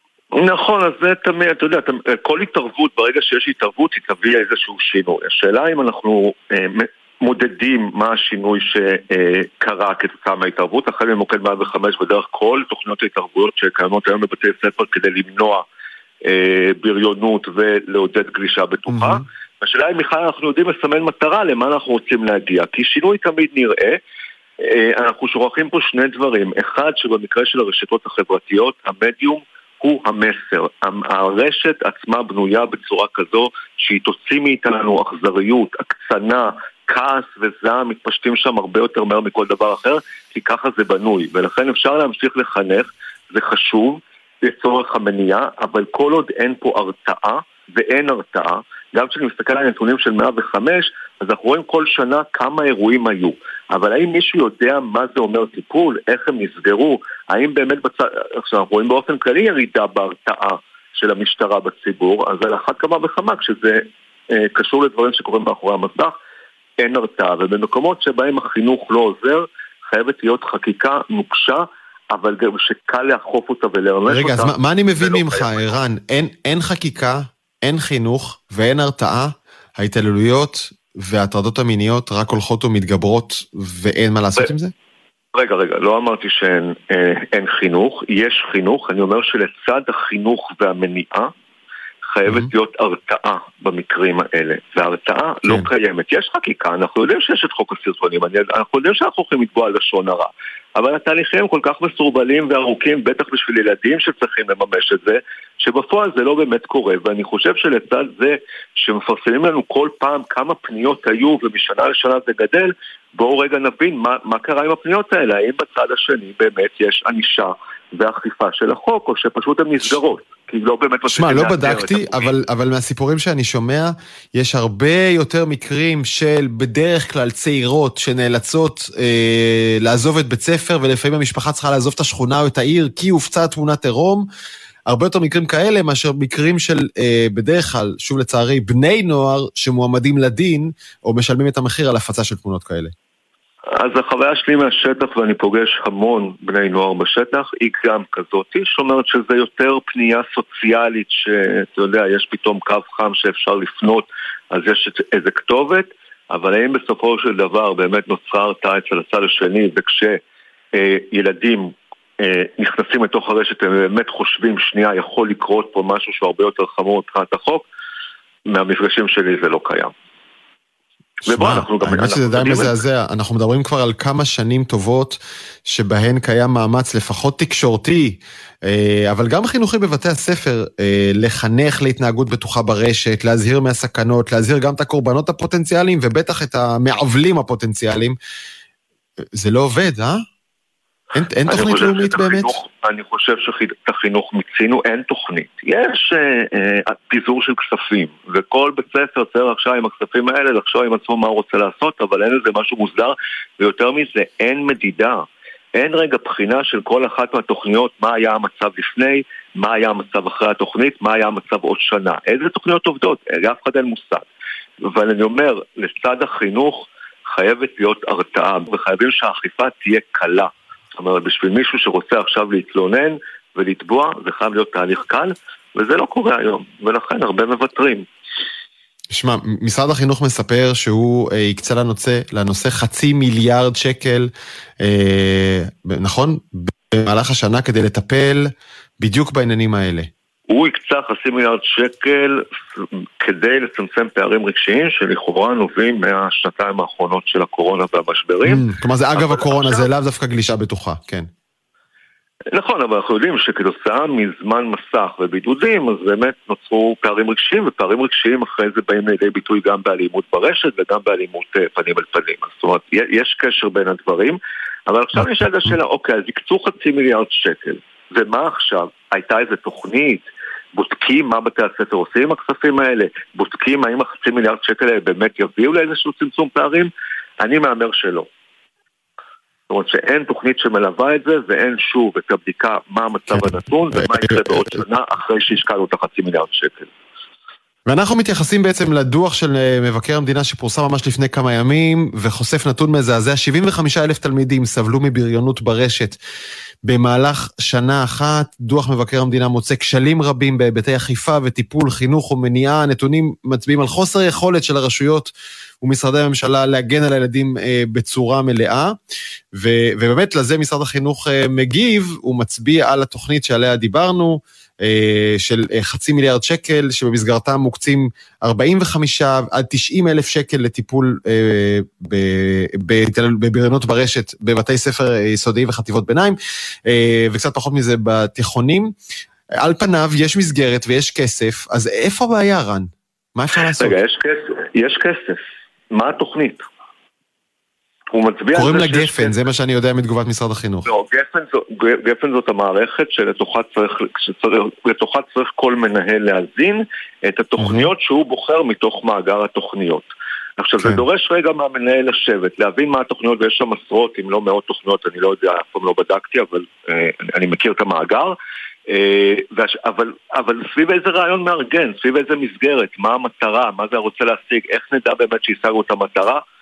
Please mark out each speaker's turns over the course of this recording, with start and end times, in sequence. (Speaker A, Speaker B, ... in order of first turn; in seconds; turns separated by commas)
Speaker A: 0.3-15.6, Speaker A: 16.2-24.0, Speaker B: 18.9-19.2, Speaker A: 24.6-66.1, Speaker A: 66.8-75.7, Speaker B: 74.1-84.7, Speaker A: 85.3-91.3, Speaker A: 92.0-122.3, Speaker B: 121.1-134.2, Speaker B: 134.9-142.9, Speaker A: 143.7-160.2, Speaker A: 160.7-167.6, Speaker A: 168.5-169.9, Speaker A: 171.2-172.7, Speaker B: 171.2-188.2, Speaker B: 189.3-190.2, Speaker B: 191.1-192.6, Speaker A: 191.4-214.2, Speaker A: 214.8-228.1, Speaker B: 229.1-238.5, Speaker B: 239.0-240.1, Speaker A: 240.5-248.6, Speaker B: 248.4-251.3, Speaker A: 249.2-249.8, Speaker A: 252.5-278.3, Speaker A: 279.7-286.9, Speaker B: 283.3-284.8, Speaker B: 287.9-296.2, Speaker B: 296.8-305.3, Speaker B: 305.8-308.9, Speaker B: 309.5-328.9, Speaker B: 329.6-333.9, Speaker A: 333.8-336.6, Speaker A: 338.1-339.4, Speaker B: 338.5-340.9, Speaker A: 340.9-358.4, Speaker B: 347.6-347.9, Speaker A: 358.9-366.4